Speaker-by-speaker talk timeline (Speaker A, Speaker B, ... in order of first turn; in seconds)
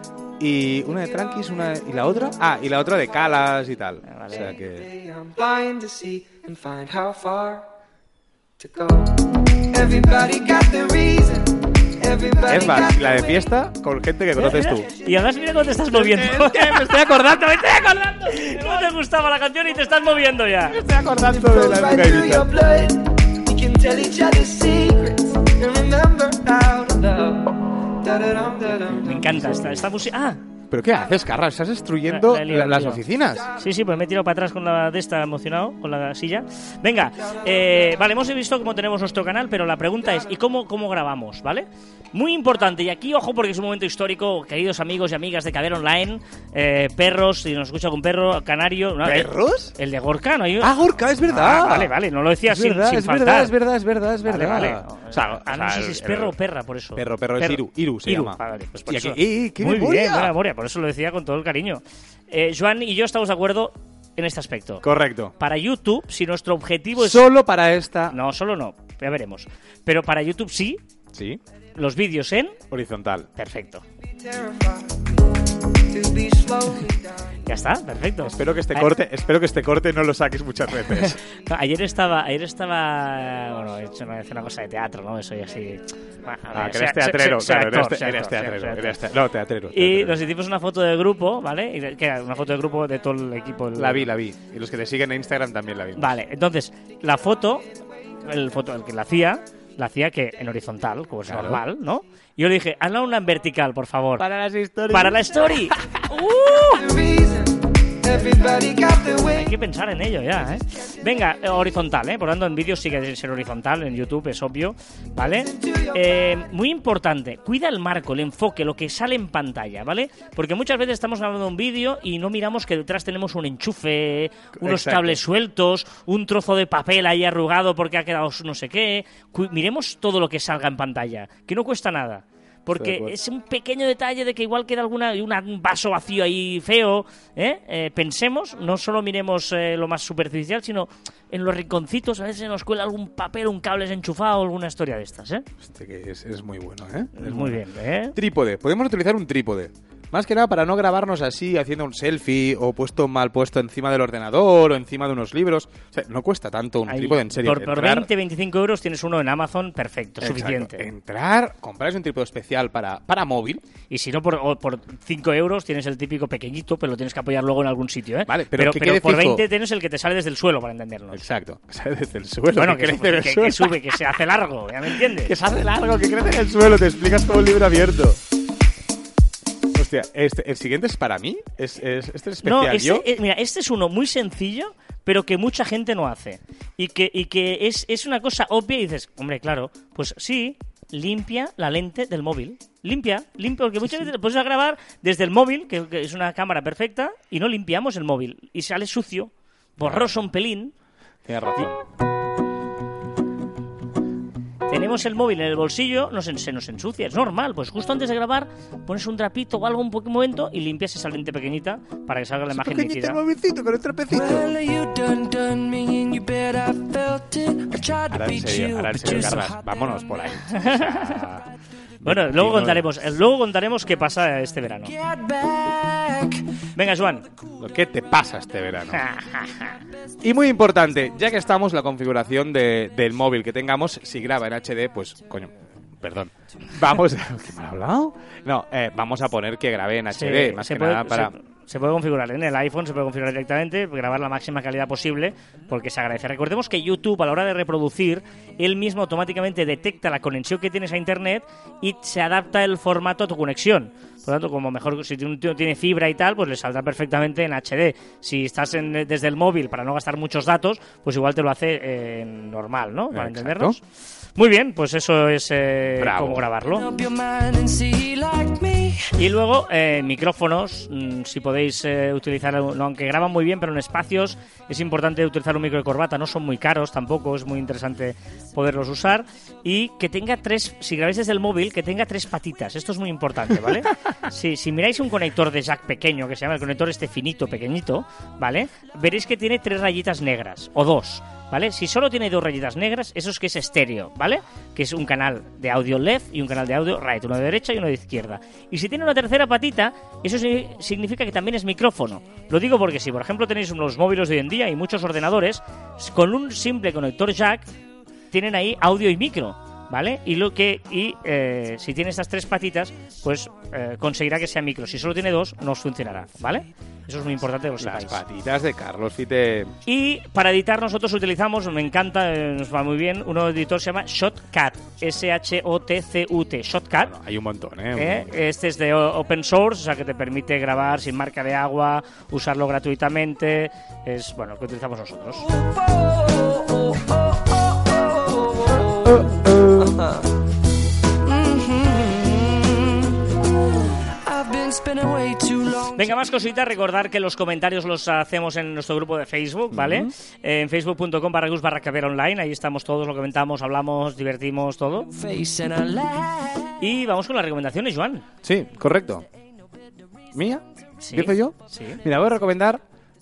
Speaker A: 0.4-4.9, 12.5-14.9, 15.9-18.8, 20.6-22.5, 29.4-29.9, 30.7-33.5, 49.0-49.7, 50.6-51.9, 52.5-56.3, 57.0-60.3, 64.8-65.3, 67.0-68.2, 71.1-71.4, 72.7-73.3, 78.2-81.2, 86.5-90.2, 93.7-96.1, 101.2-101.6, 104.2-106.3, 124.5-125.2, 132.7-133.1, 145.6-147.6, 148.1-158.1, 160.2-163.6, 168.3-169.4, 171.1-173.9, 174.9-178.2, 179.7-183.1, 199.8-200.2, 201.2-201.8, 212.5-214.5, 218.1-221.5, 222.0-222.9, 227.6-229.0, 230.2-241.3, 263.1-263.8, 266.0-266.4, 317.8-319.8, 327.0-328.3, 349.7-350.1, 358.4-359.2, 360.3-362.8
Speaker B: 4.0-4.5, 14.3-17.3, 18.2-20.8, 28.9-30.4, 32.1-33.0, 33.5-53.5, 54.2-64.8, 65.4-67.2, 68.1-70.8, 71.7-72.6, 73.3-73.8, 77.5-78.9, 80.9-89.0, 89.7-94.1, 96.0-97.7, 98.2-104.2, 104.9-106.6, 109.2-145.5, 147.2-148.2, 156.9-160.9, 163.9-171.2, 172.6-175.3, 182.4-200.7, 204.7-213.2, 220.5-221.2, 222.0-224.9, 226.7-227.3, 228.9-229.8, 240.1-263.8, 264.4-266.9, 269.1-307.7, 308.3-318.2, 319.9-327.1, 327.9-335.5, 345.9-355.1, 356.8-358.3, 361.0-362.0
Speaker C: 4.3-7.7, 8.6-13.5, 21.1-29.4, 74.0-77.4, 106.5-109.5, 115.2-116.1
Speaker D: 214.1-219.6, 224.9-226.6, 266.7-269.2, 335.6-340.2, 341.2-343.3, 344.1-346.1, 355.1-356.7